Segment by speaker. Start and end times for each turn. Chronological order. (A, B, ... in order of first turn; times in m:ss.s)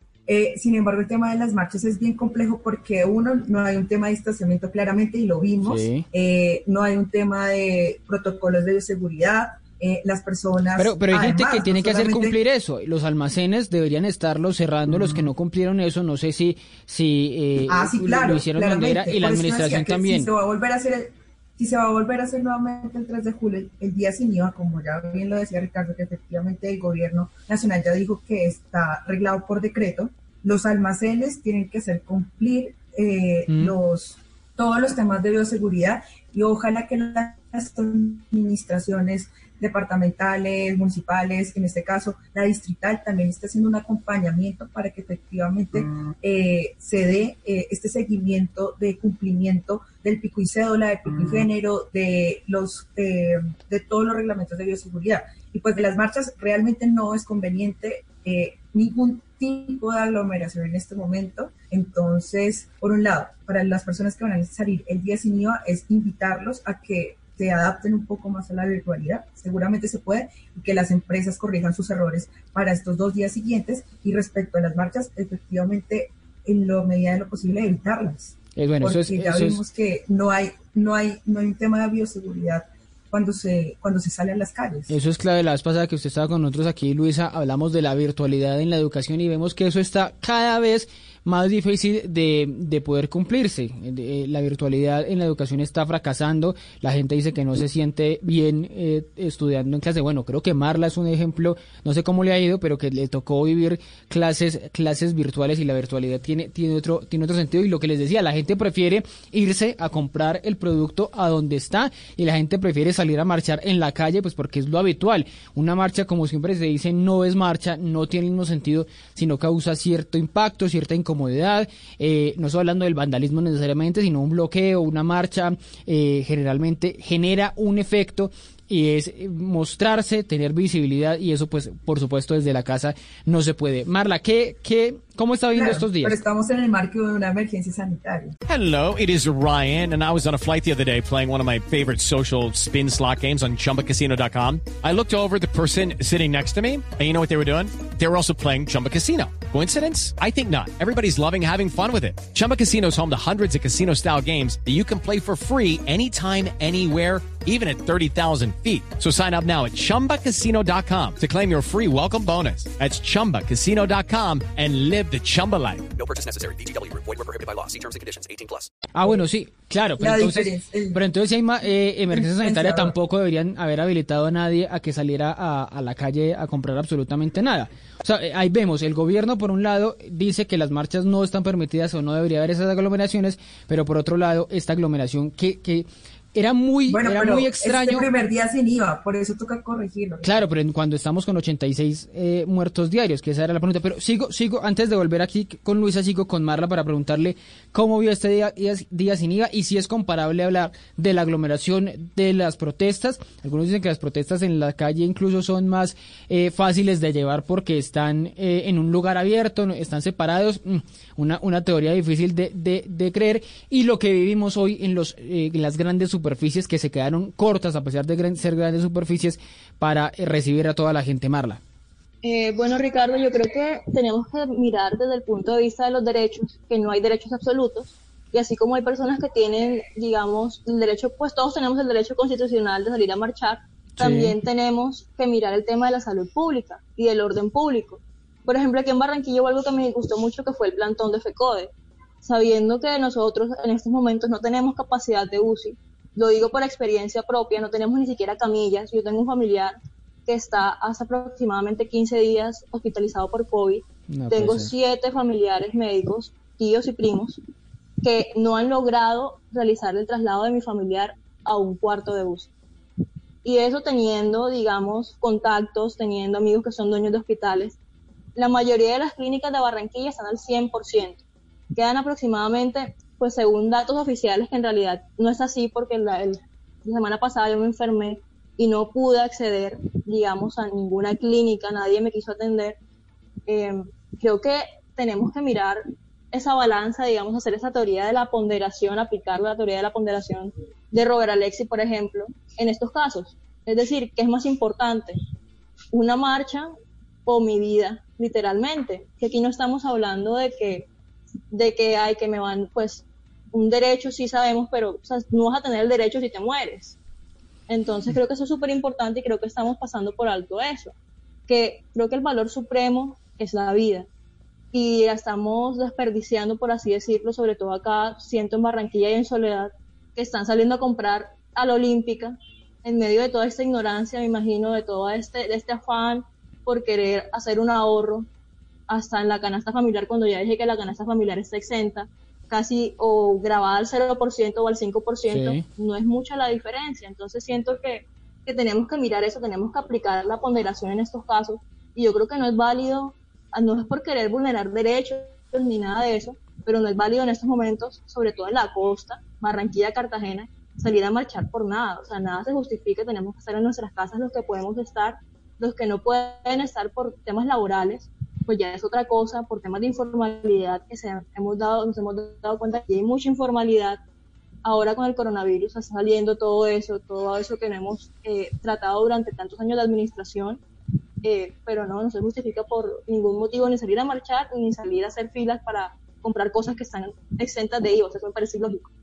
0:00.3-0:12.4 A
0:05.6-0:06.0 B
0:10.8-0:20.3 B
0:17.7-1:25.0 A
0:33.5-0:33.8 B
1:18.6-1:19.6 B
1:24.9-2:16.2 B
2:15.5-2:18.4 A
2:18.5-2:45.9 C
2:45.9-2:48.7 D
2:48.9-3:08.1 B
2:50.0-2:51.0 A
2:52.1-2:52.9 A
3:06.9-3:10.4 A
3:10.2-3:41.6 B
3:42.2-4:01.7 E
3:54.0-3:54.4 B
4:02.2-4:09.8 E
4:10.3-4:17.4 E
4:14.1-4:14.7 B
4:18.0-4:22.5 E
4:23.4-4:27.8 E
4:28.4-4:31.2 E
4:31.7-4:42.8 E
4:43.5-4:55.2 E
4:55.9-4:56.7 E
4:57.2-5:00.9 E
5:01.5-5:07.0 E
5:07.7-5:10.9 E
5:11.5-5:14.1 E
5:14.7-5:28.3 E
5:28.9-6:04.0 E
5:35.3-5:35.6 B
6:04.6-6:10.6 E
6:11.2-6:18.9 E